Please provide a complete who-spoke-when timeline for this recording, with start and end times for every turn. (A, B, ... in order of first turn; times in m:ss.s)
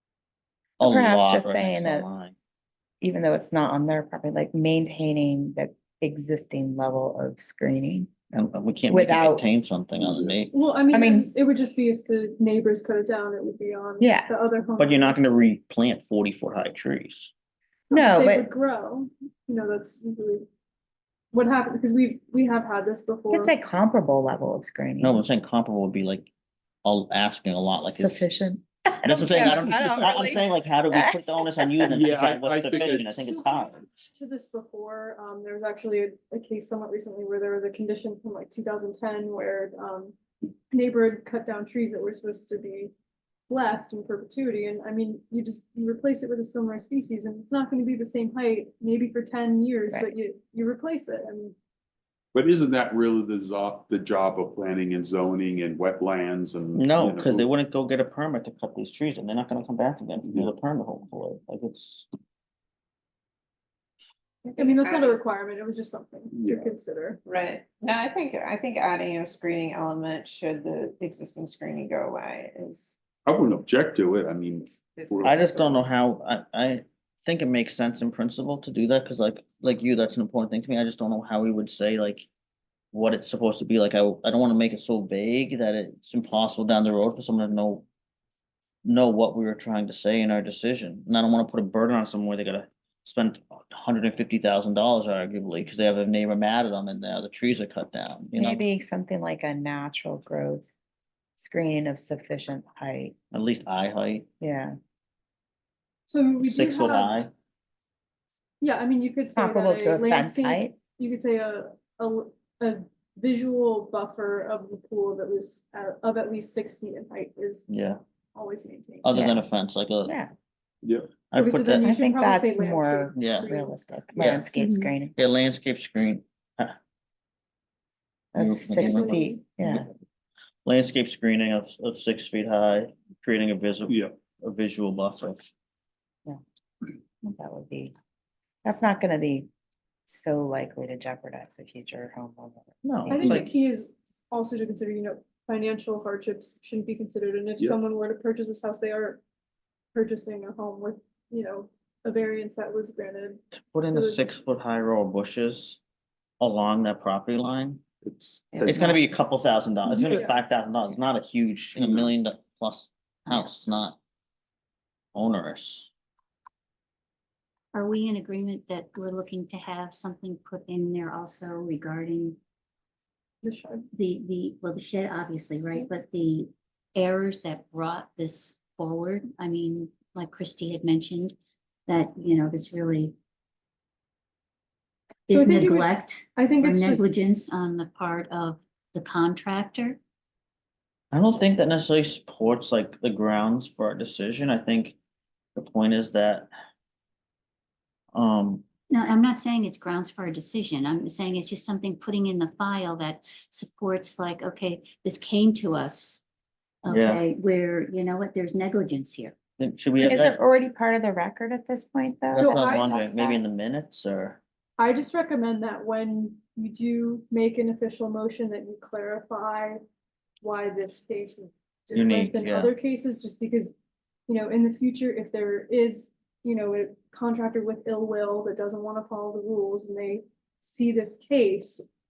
0:00.8-0:02.4 A
0:00.8-0:02.1 B
0:03.0-0:08.1 B
0:08.3-0:10.5 A
0:08.9-0:09.5 B
0:10.0-0:10.4 C
0:10.5-0:15.3 D
0:10.9-0:11.3 B
0:14.0-0:14.3 B
0:14.8-0:17.3 A
0:17.9-0:20.5 D
0:17.9-0:18.5 B
0:21.3-0:23.5 D
0:23.3-0:25.2 B
0:25.0-0:26.3 A
0:26.8-0:28.3 A
0:27.9-0:32.0 B
0:29.0-0:33.8 A
0:31.9-0:33.2 C
0:32.9-0:40.2 D
0:40.7-0:42.9 D
0:43.5-0:51.6 D
0:52.3-0:57.5 C
0:56.8-1:02.1 A
1:00.2-1:00.5 C
1:04.4-1:05.2 E
1:04.6-1:07.2 D
1:06.3-1:06.7 C
1:07.2-1:13.0 E
1:13.2-1:15.8 C
1:14.7-1:15.6 E
1:15.2-1:22.3 A
1:22.9-1:27.9 A
1:28.8-1:38.7 A
1:38.4-1:40.7 B
1:41.4-1:43.2 B
1:43.3-1:44.3 A
1:44.4-1:44.8 B
1:46.1-1:47.1 D
1:46.4-1:47.3 A
1:48.6-1:57.7 D
1:49.4-1:50.8 B
1:57.7-1:58.0 A
1:58.4-1:59.1 D
1:59.0-2:00.2 A
1:59.1-1:59.4 B
2:00.0-2:00.3 B
2:00.8-2:01.1 C
2:01.3-2:01.9 A
2:01.4-2:03.8 D
2:01.8-2:05.2 B
2:03.2-2:03.5 A
2:04.2-2:04.5 A
2:04.6-2:04.9 F
2:05.2-2:06.8 A
2:08.3-2:09.9 B
2:08.4-2:09.9 A
2:08.8-2:09.4 D
2:10.6-2:15.5 A
2:13.9-2:14.1 C
2:17.2-2:17.9 B
2:18.6-2:19.5 B
2:20.1-2:23.1 B
2:22.8-2:23.4 A
2:23.1-2:29.2 D
2:30.0-2:34.3 D
2:33.5-2:35.8 A
2:36.4-2:37.8 A
2:38.0-2:38.9 C
2:38.5-2:39.0 B
2:38.6-2:44.0 A
2:40.0-2:40.4 D
2:41.8-2:42.1 C
2:45.2-2:45.9 A
2:47.7-2:52.4 F
2:53.4-2:53.9 D
2:53.9-3:01.4 F
3:01.9-3:03.2 F
3:05.3-3:10.0 F
3:05.3-3:07.1 D
3:11.1-3:15.0 A
3:15.6-3:16.5 A
3:18.1-3:18.6 A
3:18.9-3:26.2 F
3:26.8-3:29.4 F
3:26.9-3:27.2 A
3:29.6-3:30.4 A
3:30.0-3:33.1 B
3:32.3-3:33.4 D
3:32.3-3:34.4 A
3:34.8-3:39.8 D
3:40.4-3:43.7 D
3:41.9-3:42.7 A
3:44.3-3:51.8 D